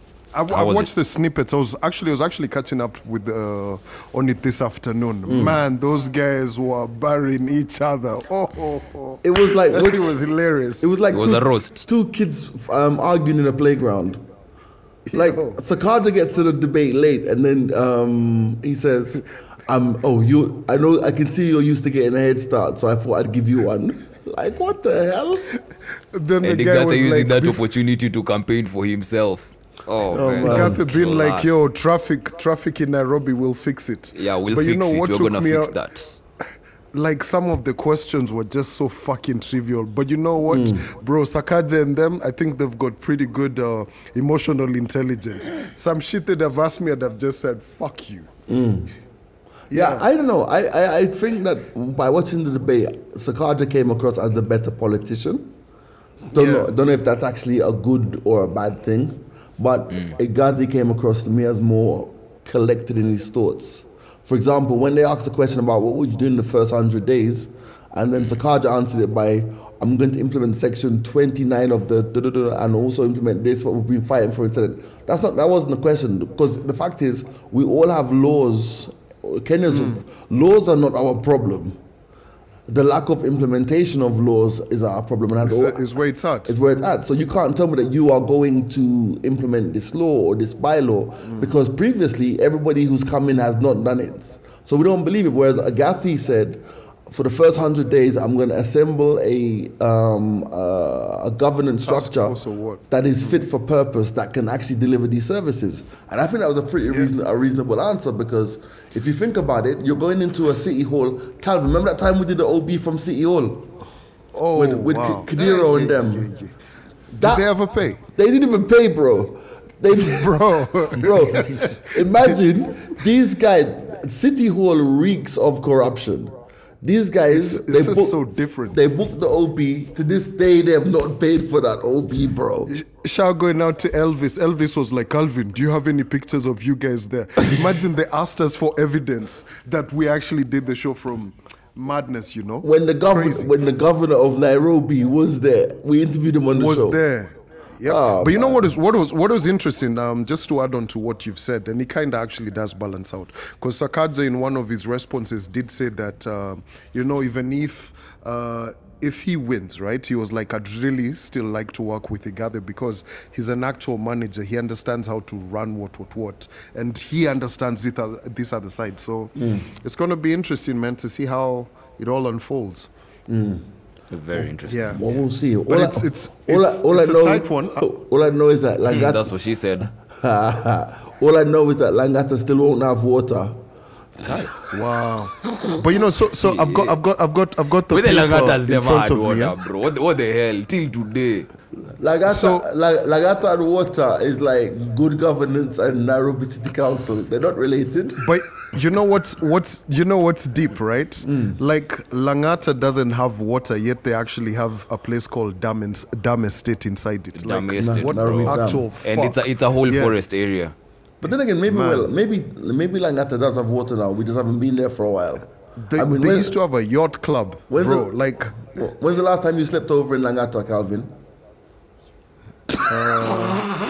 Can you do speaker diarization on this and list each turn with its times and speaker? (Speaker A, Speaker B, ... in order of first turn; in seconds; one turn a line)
Speaker A: 0.3-10.9
Speaker B: 0.5-0.9
Speaker C: 5.3-5.6
Speaker C: 9.2-10.2
Speaker C: 10.8-14.2
Speaker B: 11.1-11.9
Speaker A: 15.1-15.6
Speaker C: 15.1-25.5
Speaker A: 26.1-27.7
Speaker B: 26.4-31.6
Speaker C: 30.1-30.8
Speaker A: 30.4-35.8
Speaker B: 34.1-36.1
Speaker A: 36.9-48.3
Speaker C: 40.5-40.9
Speaker C: 48.5-48.9
Speaker A: 49.7-50.0
Speaker C: 49.7-55.5
Speaker C: 56.3-81.8
Speaker A: 56.3-56.7
Speaker A: 79.7-80.0
Speaker C: 82.7-85.8
Speaker A: 85.4-86.5
Speaker C: 86.5-102.4
Speaker A: 101.8-102.8
Speaker C: 102.9-113.7
Speaker A: 114.3-116.5
Speaker C: 114.5-116.3
Speaker A: 117.1-118.0
Speaker C: 117.2-117.5
Speaker C: 118.1-132.8
Speaker A: 119.9-122.4
Speaker A: 127.3-128.8
Speaker A: 132.7-143.5
Speaker C: 142.6-147.0
Speaker A: 146.5-172.9
Speaker C: 147.8-148.7
Speaker C: 169.4-169.7
Speaker C: 173.3-173.7
Speaker B: 174.1-175.0
Speaker A: 174.7-175.0
Speaker C: 174.9-179.3
Speaker A: 175.7-177.8
Speaker B: 178.9-179.9
Speaker C: 180.0-183.6
Speaker A: 184.6-189.6
Speaker B: 186.4-187.0
Speaker B: 187.9-191.5
Speaker C: 192.0-198.2
Speaker A: 192.2-192.7
Speaker A: 198.2-210.2
Speaker C: 201.2-201.6
Speaker B: 207.3-210.8
Speaker C: 207.8-208.9
Speaker C: 211.2-216.5
Speaker A: 211.7-212.1
Speaker A: 215.8-218.6
Speaker C: 217.7-221.2
Speaker A: 222.9-223.7